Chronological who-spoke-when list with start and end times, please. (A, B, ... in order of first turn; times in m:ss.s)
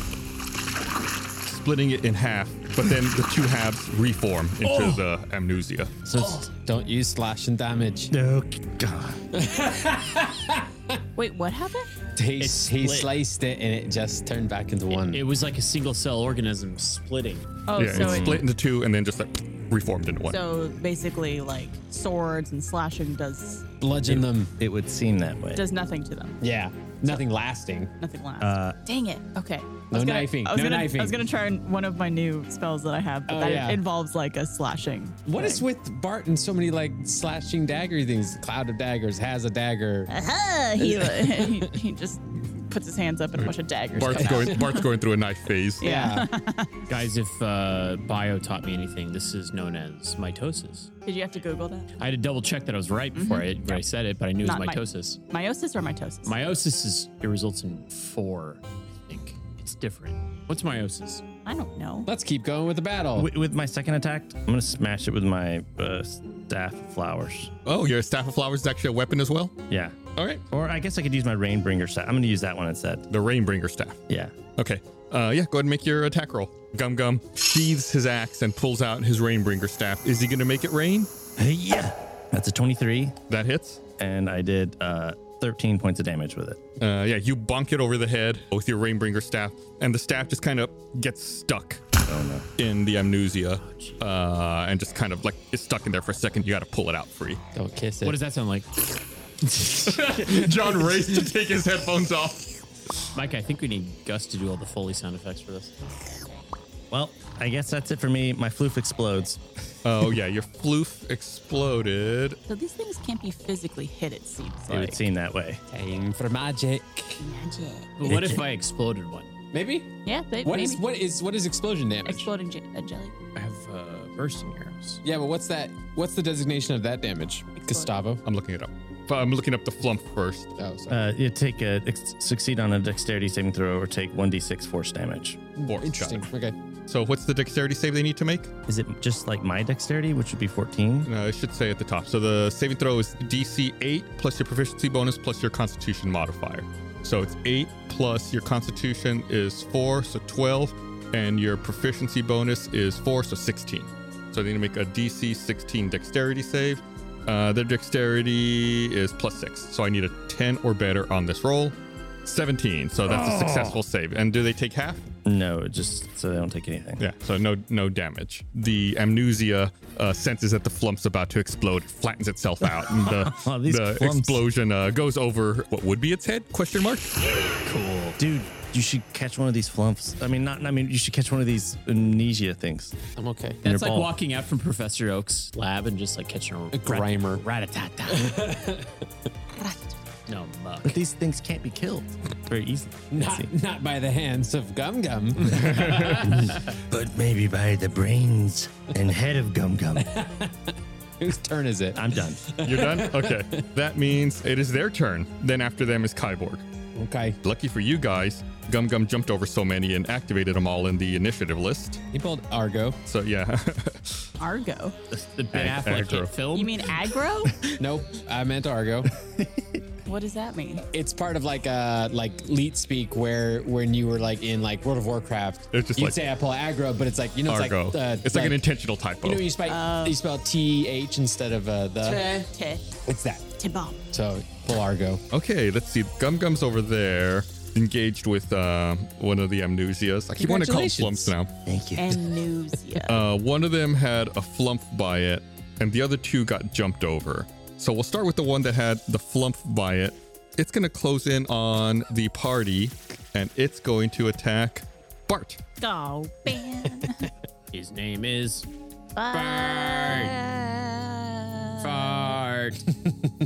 0:01.4-0:05.9 A
0:04.6-0:05.0 B
0:06.1-0:06.5 B
0:06.2-0:08.1 C
0:08.1-0:09.2 B
0:09.3-0:11.0 C
0:11.2-0:11.9 D
0:12.2-0:15.2 C
0:12.4-0:13.1 E
0:14.9-0:17.6 E
0:17.7-0:18.4 D
0:17.8-0:20.4 A
0:17.8-0:18.5 B
0:20.3-0:23.6 D
0:23.8-0:24.5 C
0:24.0-0:25.6 B
0:25.5-0:26.4 D
0:26.4-0:27.9 C
0:28.0-0:35.7 D
0:28.4-0:28.8 B
0:29.9-0:31.2 C
0:33.3-0:33.8 C
0:35.3-0:40.2 C
0:40.1-0:44.8 D
0:40.8-0:41.7 C
0:43.4-0:45.8 A
0:44.1-0:44.6 C
0:45.8-0:46.7 D
0:45.8-0:46.3 C
0:46.9-0:50.9 E
0:51.0-0:51.9 D
0:52.0-0:55.2 E
0:53.2-0:53.8 D
0:54.4-0:56.3 D
0:56.2-1:01.2 E
1:01.4-1:02.1 D
1:02.1-1:03.3 C
1:03.2-1:07.5 B
1:07.7-1:09.5 A
1:09.7-1:10.0 B
1:10.2-1:10.4 A
1:10.5-1:13.0 B
1:13.1-1:21.1 A
1:14.1-1:14.4 B
1:21.4-1:23.2 B
1:23.3-1:23.8 A
1:24.0-1:26.6 B
1:26.8-1:31.8 A
1:32.0-1:32.5 B
1:32.6-1:37.4 A
1:33.6-1:34.0 E
1:37.5-1:38.2 C
1:38.0-1:40.6 E
1:39.6-1:42.5 A
1:43.1-1:45.7 E
1:46.9-1:49.4 B
1:49.8-1:52.4 A
1:52.5-1:55.0 D
1:54.7-1:55.6 B
1:55.7-1:57.2 C
1:57.2-1:58.1 D
1:58.0-1:59.3 E
1:58.1-1:58.4 B
1:59.5-1:59.9 C
2:00.0-2:00.9 D
2:00.4-2:02.3 C
2:02.0-2:03.2 D
2:03.4-2:05.0 E
2:05.0-2:08.2 C
2:07.6-2:07.9 D
2:08.2-2:10.5 A
2:10.6-2:11.1 C
2:10.9-2:15.4 B
2:15.6-2:16.6 C
2:15.6-2:16.2 A
2:16.9-2:18.5 A
2:18.7-2:21.1 B
2:21.0-2:45.0 A
2:43.1-2:43.8 B
2:45.2-2:47.0 B
2:47.0-2:57.1 A
2:52.6-2:54.4 B
2:57.6-2:58.2 E
2:58.2-3:03.0 B
3:03.2-3:03.6 C
3:03.6-3:08.4 E
3:03.6-3:04.2 B
3:06.7-3:07.4 C
3:08.1-3:09.0 C
3:09.6-3:09.9 D
3:10.3-3:11.0 E
3:10.8-3:13.5 B
3:13.1-3:16.6 C
3:15.5-3:16.3 A
3:16.2-3:20.1 B
3:20.0-3:23.7 C
3:21.9-3:22.4 B
3:22.6-3:26.6 A
3:27.0-3:27.4 C
3:27.4-3:32.0 A
3:32.1-3:33.0 C
3:33.1-3:34.3 A
3:34.4-3:35.0 D
3:35.2-3:36.8 E
3:35.6-3:35.9 B
3:35.6-3:36.3 A
3:36.5-3:37.6 D
3:37.8-3:39.1 C
3:39.4-3:39.7 B
3:40.1-3:40.8 D
3:40.9-3:48.7 C
3:45.7-3:46.2 A
3:47.5-3:49.5 A
3:49.2-3:52.4 C
3:49.7-3:50.2 D
3:52.0-3:52.9 D
3:53.1-3:53.5 C
3:53.6-3:54.0 D
3:54.1-3:55.2 C
3:55.3-4:01.5 A
4:00.4-4:01.3 C
4:01.7-4:02.3 B
4:02.0-4:03.2 D
4:03.0-4:15.6 A
4:15.8-4:17.3 D
4:17.7-4:18.7 E
4:19.2-4:22.1 D
4:19.3-4:20.4 E
4:21.8-4:22.9 E